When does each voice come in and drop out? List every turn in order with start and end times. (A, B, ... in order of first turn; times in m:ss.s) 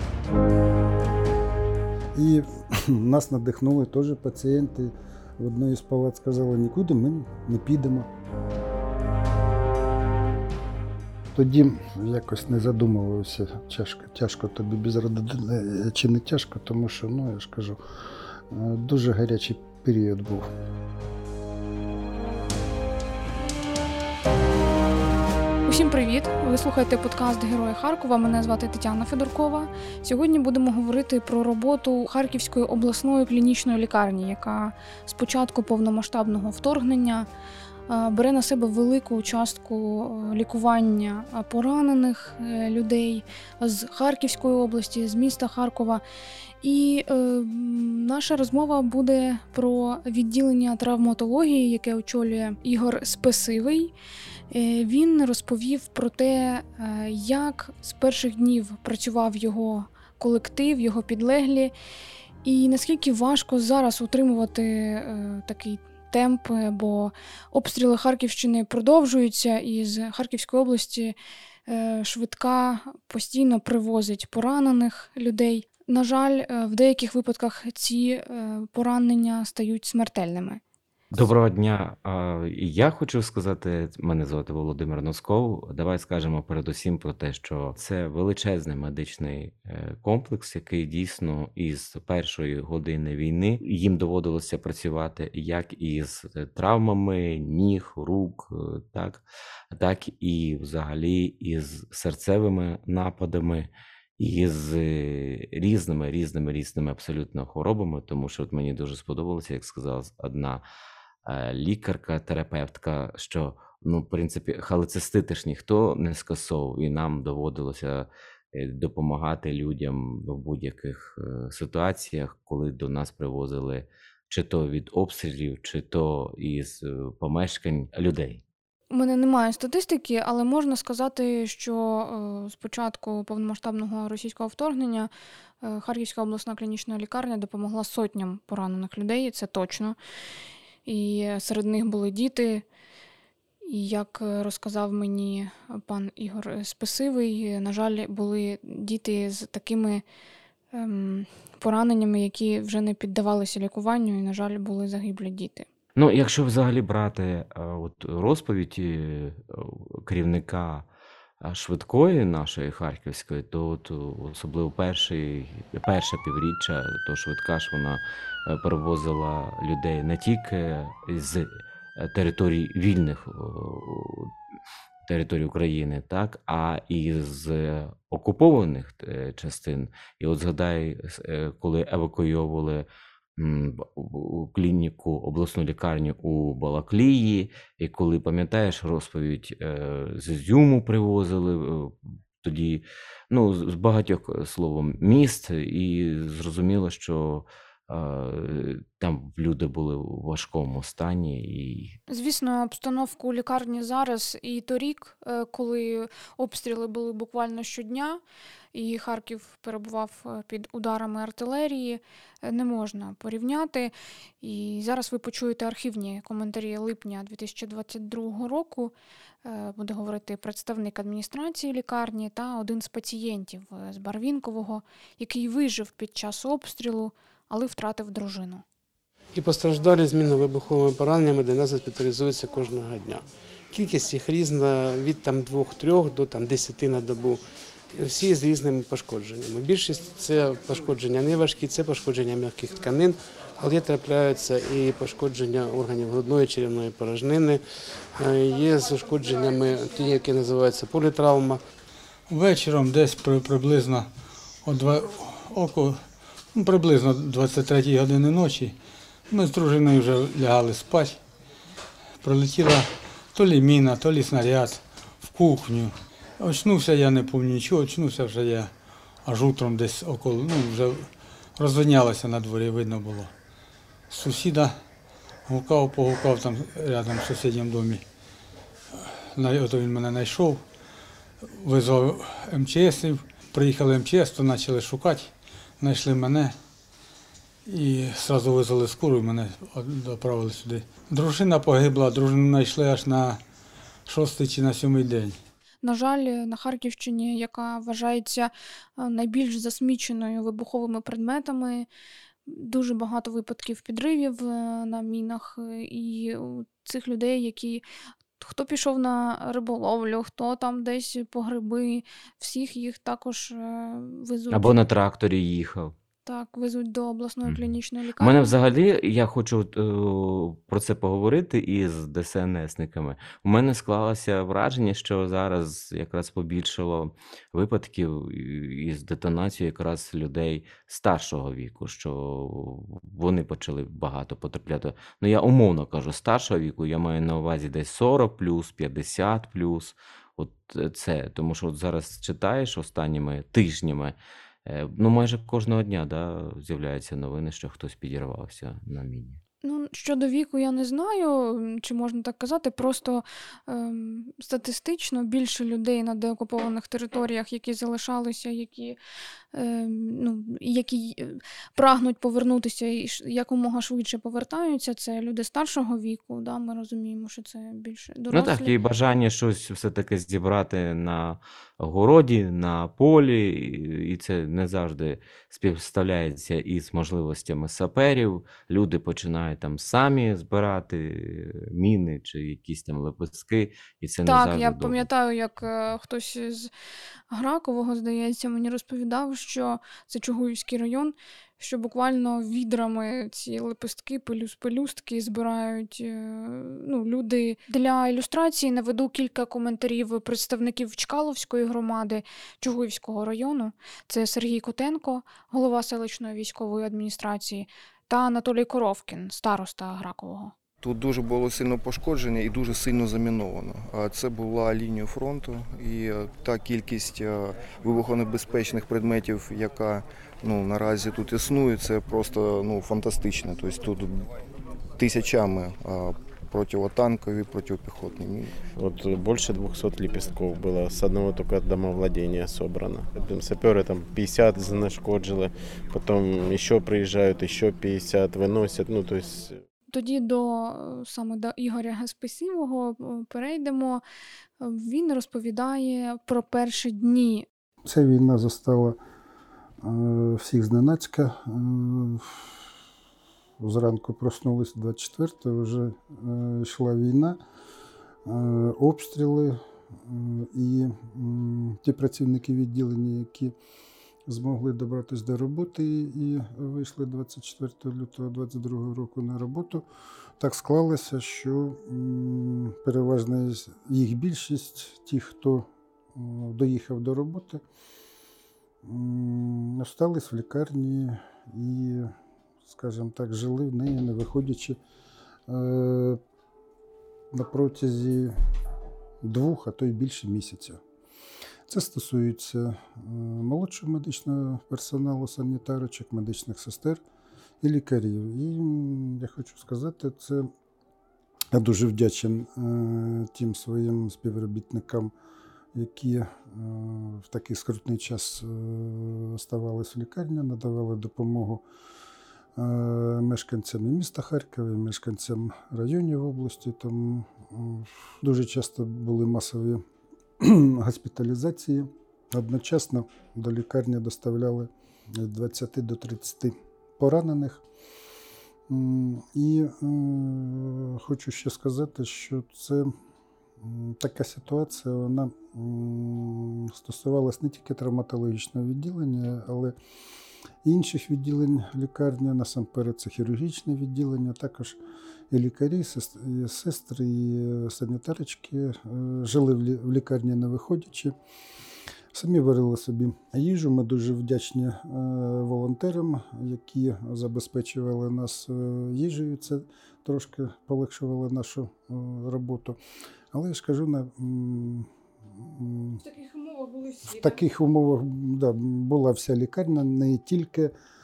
0:02.1-0:08.1 A
0:11.3-0:17.8 A
0:18.5-0:20.5 A
0:25.6-0:37.2 B
0:37.9-0:46.0 B
0:46.6-0:53.9 B
0:54.5-1:01.7 B
1:02.4-1:11.2 B
1:11.7-1:20.6 B
1:21.1-1:50.6 C
1:51.2-2:08.4 C
2:08.9-2:15.1 B
2:15.6-2:20.0 B
2:20.8-2:22.6 B
2:23.6-2:30.0 B
2:30.7-2:35.7 B
2:36.0-2:40.9 C
2:41.4-2:54.3 C
2:55.0-3:22.0 C
3:22.1-3:28.2 B
3:28.7-3:38.9 B
3:39.4-3:48.6 B
3:49.3-3:57.4 D
3:57.9-4:07.6 D
4:08.1-4:11.6 D
4:12.3-4:14.1 E
4:14.6-4:18.7 E
4:19.3-4:21.2 E
4:22.2-4:28.7 E
4:29.2-4:33.3 E
4:34.1-4:34.8 E
4:35.5-4:38.0 E
4:38.9-4:40.6 E
4:41.4-4:46.5 E
4:47.6-4:53.4 E
4:54.1-4:55.4 E
4:55.8-5:01.9 B
5:02.5-5:07.8 B
5:08.4-5:14.8 B
5:14.5-5:15.9 C
5:16.2-5:18.5 B
5:17.4-5:49.4 C
5:49.6-5:59.0 B
5:59.5-6:08.7 B
6:08.3-6:25.0 C
6:24.2-6:26.7 B
6:27.3-6:50.5 B
6:50.8-7:04.3 F
7:05.0-7:08.6 F
7:08.8-7:19.6 G
7:19.9-7:24.0 B
7:24.6-7:27.5 B
7:27.8-7:29.0 A
7:29.8-7:32.6 A
7:33.6-7:37.4 A
7:38.2-7:43.5 A
7:44.3-7:49.8 A
7:50.4-7:57.6 A
7:58.8-8:02.1 A
8:02.6-8:04.8 A
8:05.5-8:06.2 A
8:07.3-8:08.3 A
8:09.2-8:10.8 A
8:11.7-8:17.0 A
8:17.6-8:20.5 A
8:21.5-8:25.1 A
8:25.7-8:31.6 A
8:32.6-8:39.8 A
8:40.4-8:47.6 A
8:48.7-8:52.9 A
8:53.6-8:59.7 A
9:00.6-9:04.8 A
9:05.3-9:11.1 A
9:12.1-9:22.8 A
9:23.3-9:26.0 A
9:26.0-9:27.4 B
9:27.0-9:30.7 A